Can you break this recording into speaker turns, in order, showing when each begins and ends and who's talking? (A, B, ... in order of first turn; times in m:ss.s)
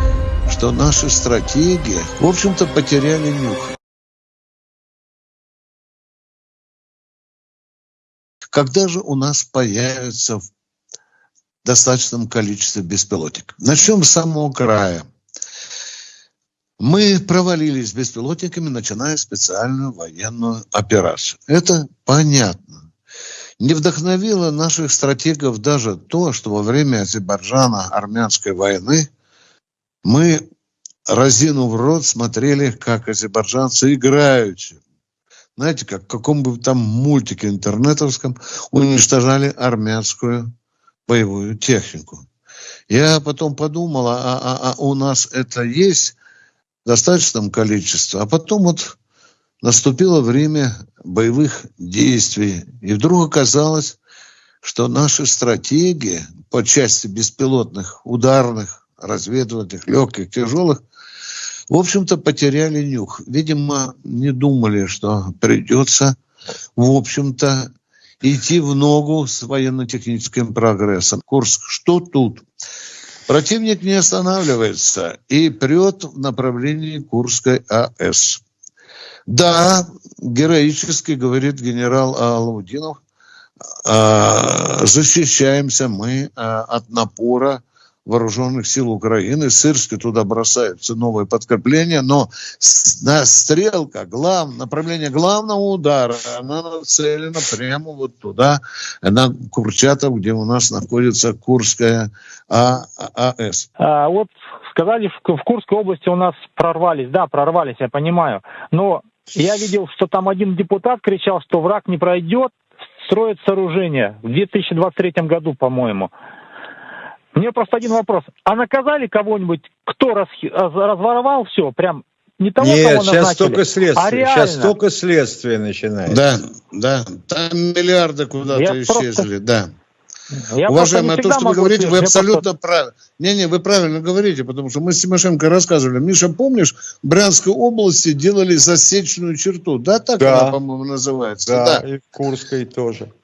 0:00.5-0:03.8 A
0:08.5-0:10.4 A
0:11.6-0:15.0 A
0:16.8-0:22.9 A
0:23.6-0:29.1 A
0:30.0-0:30.4 A
0:31.1-0:34.8 A
0:35.6-0:40.5 A
0:41.1-0:42.2 A
0:42.9-0:46.2 A
0:46.8-0:49.0 A
0:49.6-0:54.0 A
0:54.6-1:00.8 A
1:01.7-1:06.2 A
1:06.8-1:07.7 A
1:08.2-1:12.4 A
1:13.3-1:18.4 A
1:19.3-1:23.0 A
1:23.8-1:43.7 A
1:43.8-1:56.1 B
1:57.3-2:04.8 B
2:02.6-2:06.3 C
2:06.1-2:09.7 A
2:08.5-2:09.3 B
2:10.3-2:12.4 B
2:10.6-2:21.8 A
2:20.2-2:20.6 C
2:21.4-2:23.1 C